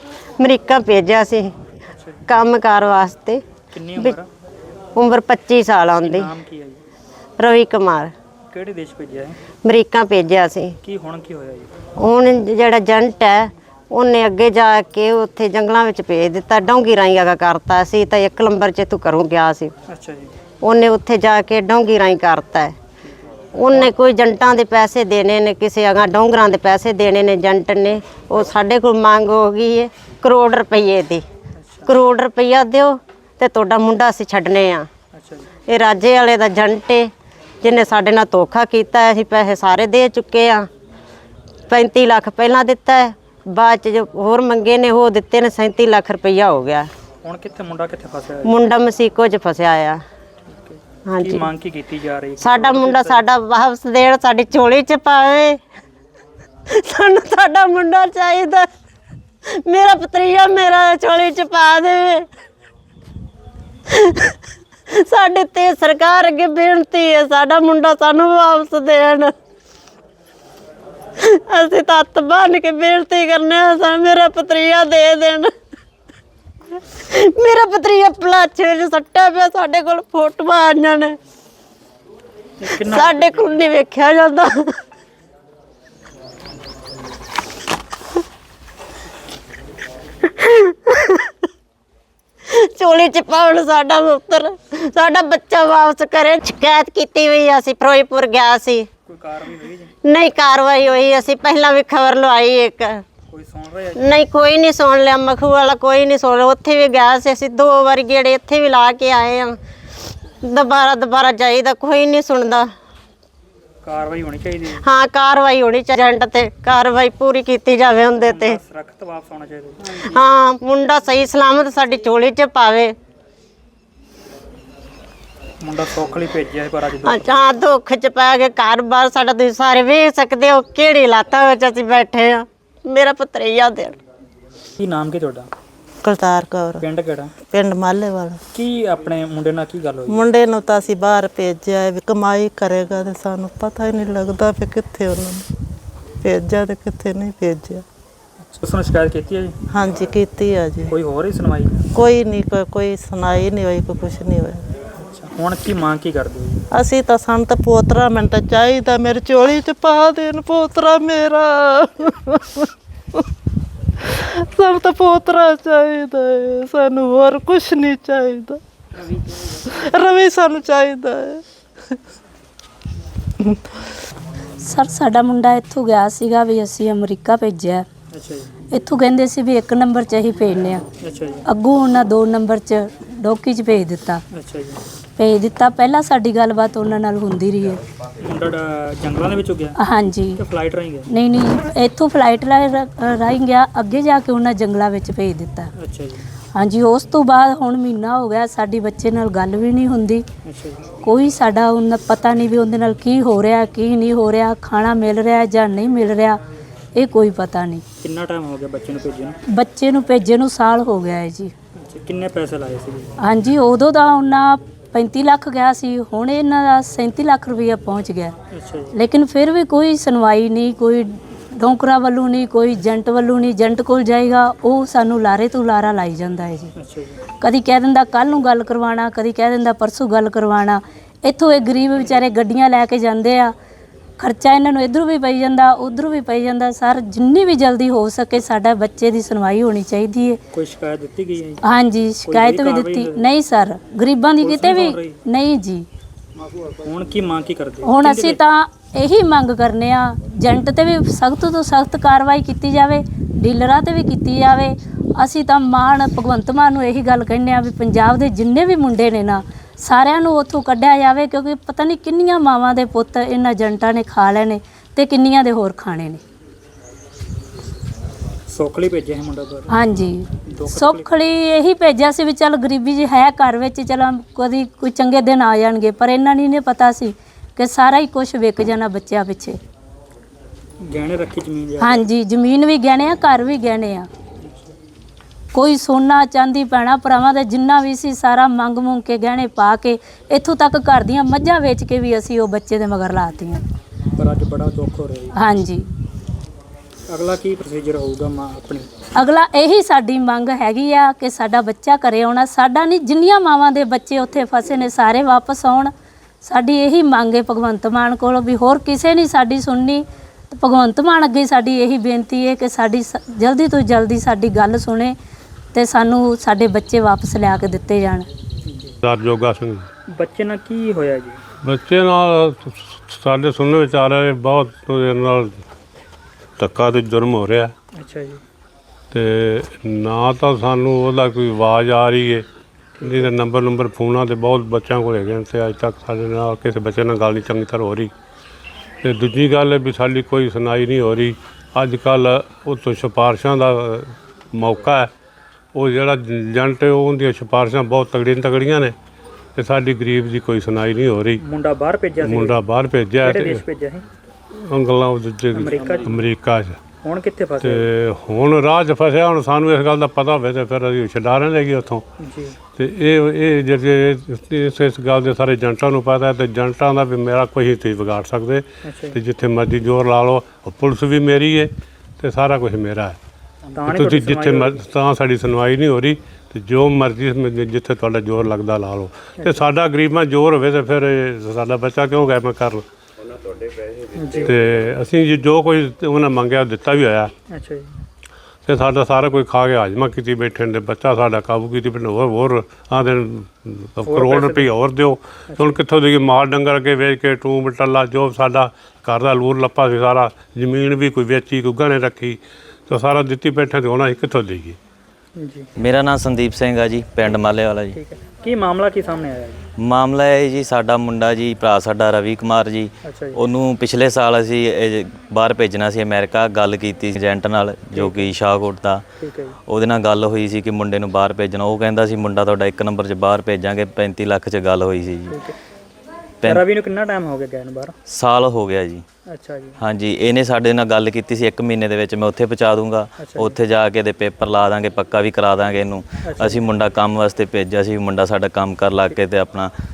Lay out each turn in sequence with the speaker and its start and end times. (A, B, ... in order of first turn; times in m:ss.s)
0:00.4-0:01.5 A
0:01.9-0:02.2 B
0:02.3-0:03.4 A
0:03.7-0:04.3 B
0:05.0-0:06.3 A
0:06.0-0:06.8 B
0:07.4-0:08.1 A
0:08.5-0:09.4 B
0:09.6-0:10.7 A
0:10.8-0:11.7 B
0:12.0-0:19.7 A
0:19.9-0:20.3 B
0:20.6-0:22.8 A
0:23.0-0:23.9 B
0:23.5-0:31.2 A
0:31.6-0:32.0 B
0:31.9-0:34.9 A
0:35.1-0:35.5 B
0:35.7-0:37.1 A
0:37.6-0:40.7 A
0:41.7-0:46.9 A
0:47.2-0:48.5 B
0:48.4-0:50.0 A
0:50.5-0:53.2 B
0:51.1-0:51.5 A
0:52.4-0:55.6 A
0:56.9-0:58.6 A
0:59.6-1:02.2 A
1:04.9-1:09.3 A
1:11.5-1:15.5 A
1:17.1-1:21.2 A
1:22.6-1:23.6 B
1:22.7-1:24.5 A
1:30.4-1:31.2 A
1:32.7-1:38.9 A
1:39.0-1:39.9 B
1:40.1-1:43.0 A
1:43.3-1:44.2 B
1:44.0-1:49.6 A
1:50.4-1:52.7 A
1:53.8-1:54.8 B
1:54.8-1:58.6 A
1:58.2-2:00.2 B
2:00.1-2:02.9 A
2:05.6-2:07.3 B
2:07.0-2:13.9 A
2:14.8-2:15.5 B
2:16.0-2:16.8 C
2:16.8-2:17.3 B
2:17.5-2:18.4 C
2:18.5-2:20.2 B
2:20.1-2:25.4 C
2:26.2-2:27.8 C
2:28.4-2:29.5 B
2:29.7-2:30.9 C
2:30.9-2:31.8 B
2:31.9-2:34.6 C
2:35.0-2:36.6 B
2:36.7-2:42.7 C
2:44.0-2:48.6 C
2:49.6-2:51.4 C
2:54.6-2:57.8 D
2:58.1-2:58.5 B
2:58.7-3:00.8 D
3:01.0-3:01.4 B
3:01.4-3:04.2 D
3:04.3-3:04.8 B
3:05.2-3:07.8 D
3:08.2-3:09.8 B
3:09.8-3:10.4 D
3:10.4-3:11.1 B
3:11.1-3:15.7 D
3:15.8-3:16.2 B
3:16.5-3:20.2 D
3:20.4-3:20.8 B
3:21.0-3:26.4 D
3:27.0-3:27.8 D
3:28.0-3:29.4 B
3:29.5-3:31.5 D
3:31.8-3:33.1 B
3:33.2-3:38.3 D
3:38.5-3:39.0 B
3:38.9-3:46.7 D
3:46.8-3:47.2 B
3:47.4-3:53.5 D
3:54.2-4:00.4 D
4:00.5-4:01.6 B
4:01.6-4:05.8 D
4:02.2-4:03.2 B
4:04.4-4:05.2 B
4:06.8-4:08.4 B
4:07.8-4:26.2 D
4:28.5-4:29.7 B
4:29.7-4:39.6 D
4:30.5-4:31.0 B
4:40.9-4:42.1 B
4:41.8-4:44.1 D
4:44.4-4:44.7 B
4:45.5-4:53.6 D
4:54.2-4:55.4 B
4:55.3-4:55.8 D
4:57.1-4:58.9 B
4:59.1-5:15.1 D
5:15.7-5:18.2 D
5:18.6-5:19.0 B
5:19.0-5:19.8 E
5:20.1-5:21.4 B
5:21.6-5:25.5 E
5:26.6-5:27.7 E
5:27.9-5:28.4 B
5:29.1-5:32.4 E
5:33.0-5:38.1 E
5:33.0-5:33.3 B
5:39.0-5:45.1 E
5:45.7-5:48.9 E
5:49.6-5:51.4 E
5:51.4-5:52.6 B
5:52.2-5:53.6 E
5:53.2-5:54.0 B
5:54.6-5:56.8 E
5:55.5-5:56.2 B
5:57.0-5:57.9 B
5:57.6-6:02.0 E
6:02.2-6:02.6 B
6:02.7-6:13.2 E
6:08.8-6:09.2 B
6:13.7-6:14.8 B
6:13.8-6:22.8 E
6:19.4-6:19.6 B
6:24.1-6:24.5 B
6:24.4-6:27.3 E
6:27.5-6:27.9 B
6:28.6-6:44.8 E
6:34.0-6:34.7 B
6:35.5-6:35.8 B
6:45.4-6:45.7 B
6:45.8-6:48.0 F
6:47.9-6:49.6 B
6:49.8-6:59.0 F
6:53.0-6:53.4 B
6:57.9-6:58.3 B
6:59.2-6:59.6 B
6:59.7-7:05.4 F
7:05.3-7:05.5 B
7:06.4-7:07.9 B
7:08.1-7:09.0 F
7:09.3-7:09.8 B
7:09.8-7:19.7 F
7:13.2-7:13.6 B
7:16.2-7:16.6 B